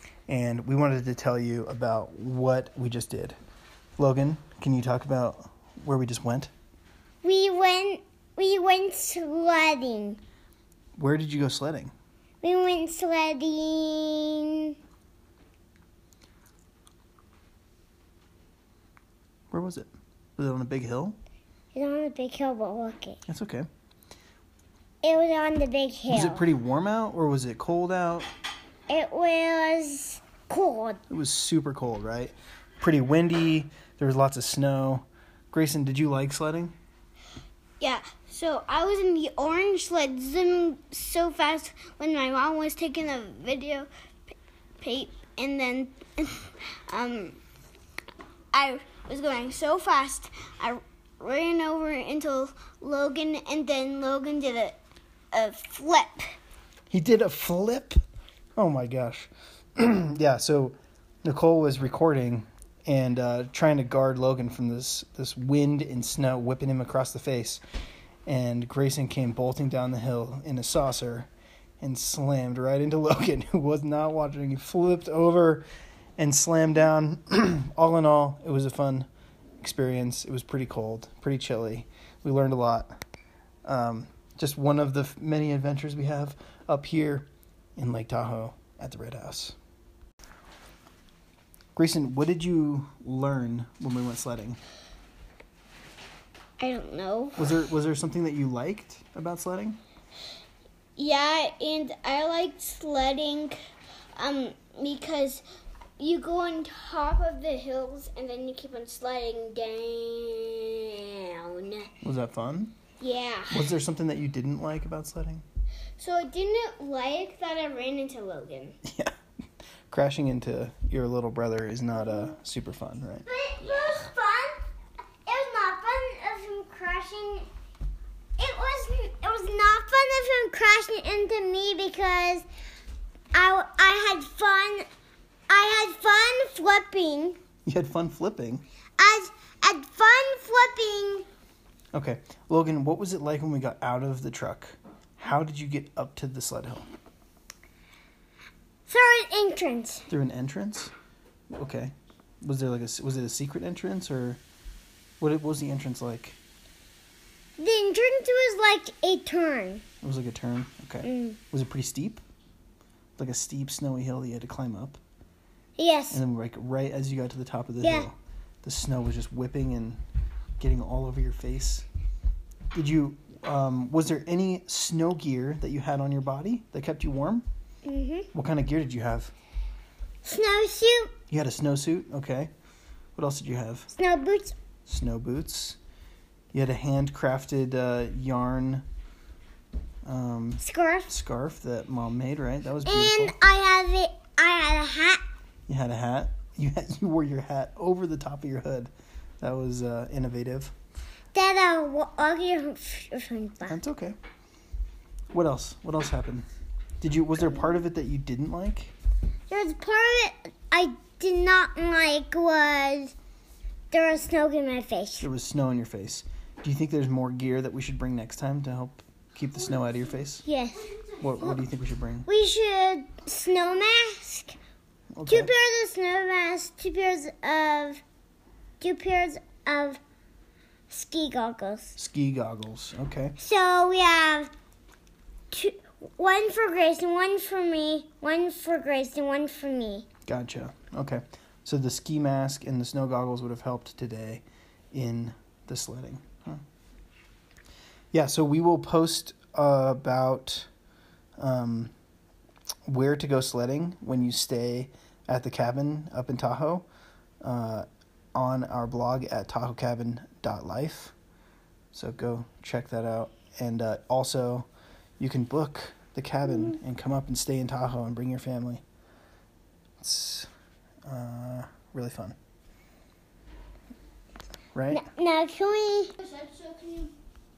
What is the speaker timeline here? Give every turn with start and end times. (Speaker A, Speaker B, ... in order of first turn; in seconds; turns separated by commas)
Speaker A: 0.3-3.4, Speaker A: 4.0-6.5, Speaker B: 7.2-10.2, Speaker A: 11.0-11.9, Speaker B: 12.4-14.8, Speaker A: 19.5-21.2, Speaker B: 21.7-23.2, Speaker A: 23.3-23.7, Speaker B: 25.0-26.5, Speaker A: 26.1-28.3, Speaker B: 28.9-31.0, Speaker A: 31.1-36.8, Speaker C: 37.8-43.9, Speaker B: 40.6-41.0, Speaker C: 44.8-47.4, Speaker C: 48.5-54.8, Speaker C: 55.3-56.3, Speaker A: 56.9-58.0, Speaker A: 58.6-67.6, Speaker A: 68.3-71.3, Speaker A: 71.8-75.7, Speaker A: 76.2-79.1, Speaker A: 79.6-82.9, Speaker A: 83.7-89.6, Speaker A: 91.8-94.6, Speaker C: 96.6-97.5, Speaker A: 97.4-99.8, Speaker C: 101.0-103.6, Speaker C: 104.2-105.4, Speaker C: 106.0-111.9, Speaker A: 112.0-112.8, Speaker C: 113.0-113.7, Speaker A: 113.5-115.5, Speaker C: 116.0-118.7, Speaker A: 118.8-119.1, Speaker A: 119.9-123.2, Speaker B: 123.3-124.5, Speaker C: 123.6-124.0, Speaker B: 125.3-127.5, Speaker B: 128.4-132.5, Speaker B: 133.3-134.9, Speaker B: 135.5-137.4, Speaker A: 137.7-138.6, Speaker B: 139.0-141.3, Speaker A: 141.9-146.9, Speaker B: 148.9-150.1, Speaker A: 150.1-150.9, Speaker A: 151.5-154.4, Speaker A: 155.2-156.4, Speaker B: 157.6-159.8, Speaker A: 160.0-162.2, Speaker B: 161.0-161.4, Speaker A: 163.2-165.0, Speaker B: 165.8-166.2, Speaker A: 166.1-170.0, Speaker B: 167.8-168.1, Speaker A: 170.6-171.9, Speaker A: 172.7-177.5, Speaker B: 177.8-178.3, Speaker A: 178.3-179.3, Speaker B: 180.2-181.2, Speaker A: 181.3-182.5, Speaker A: 183.2-183.9, Speaker B: 183.9-184.6, Speaker A: 184.9-185.8, Speaker A: 186.5-188.8, Speaker A: 190.1-193.4, Speaker B: 190.6-191.1, Speaker B: 192.8-195.2, Speaker A: 195.7-200.7, Speaker B: 201.3-203.8, Speaker A: 203.7-204.2, Speaker A: 205.3-206.5, Speaker A: 207.0-208.9, Speaker B: 209.5-213.2, Speaker B: 213.9-215.3, Speaker A: 215.2-220.4, Speaker B: 220.4-221.6, Speaker A: 221.2-222.3, Speaker B: 222.3-224.6, Speaker A: 225.1-225.5, Speaker B: 225.3-228.0, Speaker B: 228.8-230.0, Speaker B: 230.9-232.0, Speaker A: 232.0-233.4, Speaker B: 233.4-234.5, Speaker B: 235.5-240.1, Speaker A: 240.3-246.6, Speaker A: 248.1-250.7, Speaker A: 251.4-251.9, Speaker A: 252.9-256.9, Speaker A: 257.4-261.1, Speaker A: 261.9-264.7, Speaker A: 265.2-268.8, Speaker A: 270.0-270.5, Speaker A: 271.1-272.4, Speaker A: 274.7-275.1, Speaker B: 274.9-276.2, Speaker C: 276.2-277.1